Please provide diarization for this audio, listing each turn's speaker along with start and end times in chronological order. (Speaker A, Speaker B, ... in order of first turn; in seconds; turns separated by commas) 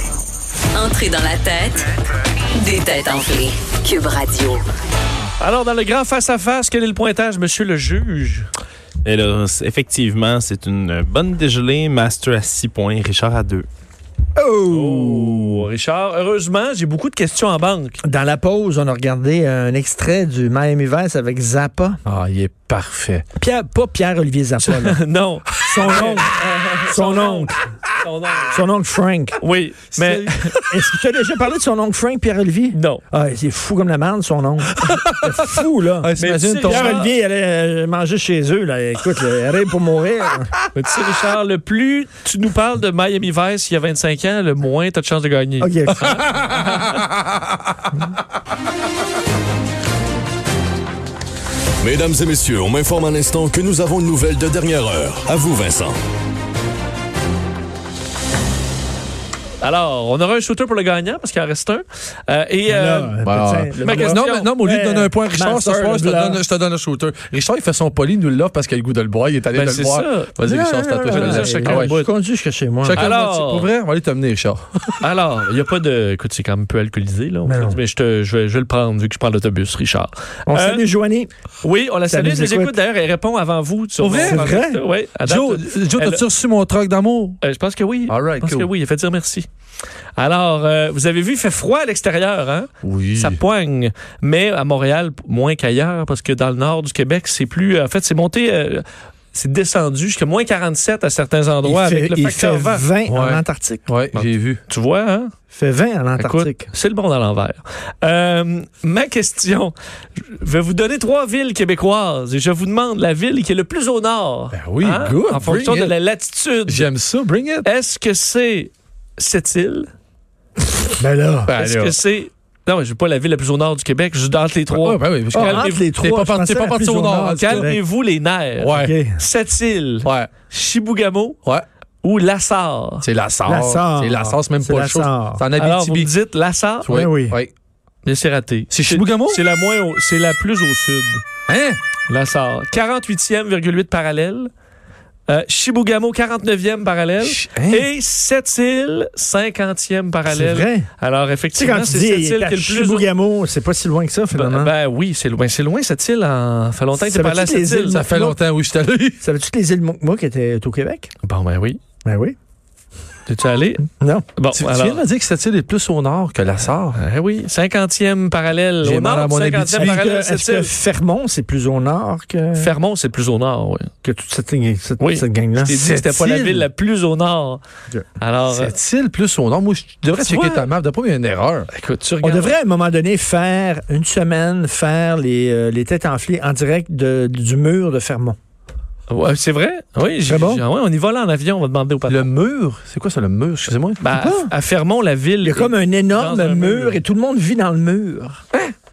Speaker A: 0.7-1.9, Speaker A: 2.6-4.6, Speaker B: 5.4-8.5, Speaker C: 9.0-13.7, Speaker D: 14.3-15.7, Speaker B: 14.7-18.0, Speaker D: 18.0-22.0, Speaker E: 22.1-23.2, Speaker D: 23.4-25.0, Speaker B: 24.6-28.6, Speaker D: 25.6-27.6, Speaker D: 28.5-29.4, Speaker B: 29.4-30.6, Speaker D: 30.0-40.5, Speaker B: 32.7-33.0, Speaker E: 34.8-37.1, Speaker B: 36.2-37.1, Speaker B: 40.7-47.0, Speaker D: 45.6-46.3, Speaker E: 46.1-47.6, Speaker F: 51.8-56.0, Speaker B: 59.6-63.2, Speaker D: 62.7-66.4, Speaker E: 63.2-72.0, Speaker B: 63.8-64.5, Speaker B: 69.5-70.3, Speaker D: 70.5-73.0, Speaker B: 71.1-72.1, Speaker E: 72.8-75.0, Speaker B: 72.9-73.7, Speaker B: 75.0-80.8, Speaker D: 77.5-77.8, Speaker D: 80.5-81.3, Speaker B: 81.6-86.2, Speaker D: 82.1-82.8, Speaker E: 84.0-84.5, Speaker D: 84.2-84.8, Speaker E: 85.2-87.4, Speaker B: 87.4-89.5, Speaker E: 88.1-88.7, Speaker B: 90.2-102.9, Speaker E: 92.8-93.4, Speaker D: 101.6-103.8, Speaker E: 103.1-104.6, Speaker B: 104.1-105.3, Speaker D: 105.5-106.7, Speaker B: 106.2-116.9, Speaker E: 114.5-115.9, Speaker E: 116.7-117.7, Speaker B: 117.6-119.9, Speaker D: 121.0-121.5, Speaker E: 121.5-122.0, Speaker B: 121.5-125.8, Speaker E: 124.7-127.7, Speaker D: 125.3-127.8, Speaker B: 127.3-131.4, Speaker E: 128.6-128.9, Speaker D: 128.7-129.2, Speaker E: 130.0-130.3, Speaker B: 132.0-133.1, Speaker E: 133.0-136.1, Speaker D: 133.4-135.4, Speaker B: 135.6-137.0, Speaker E: 136.8-137.5, Speaker D: 136.9-137.4, Speaker B: 138.0-141.2, Speaker E: 138.7-139.4, Speaker E: 141.5-141.8, Speaker B: 142.1-144.5, Speaker B: 145.3-153.1, Speaker E: 147.2-147.9, Speaker D: 150.3-150.9, Speaker D: 151.5-154.7, Speaker B: 154.3-158.0, Speaker D: 156.9-158.4, Speaker E: 157.9-159.2, Speaker D: 159.2-161.1, Speaker B: 161.2-161.8, Speaker D: 162.0-162.3, Speaker B: 163.3-165.0, Speaker D: 164.0-164.2, Speaker E: 164.5-167.0, Speaker B: 166.9-170.7, Speaker E: 168.8-170.1, Speaker D: 169.7-172.7, Speaker B: 172.6-173.9, Speaker D: 174.0-175.8, Speaker B: 175.0-177.6, Speaker E: 175.7-176.7, Speaker B: 178.2-178.7, Speaker E: 178.5-181.7, Speaker B: 180.2-180.7, Speaker B: 181.7-182.5, Speaker D: 182.2-188.4, Speaker B: 189.1-192.3, Speaker D: 190.2-190.6, Speaker E: 192.1-194.0, Speaker B: 194.0-197.0, Speaker D: 194.1-194.5, Speaker D: 195.4-198.4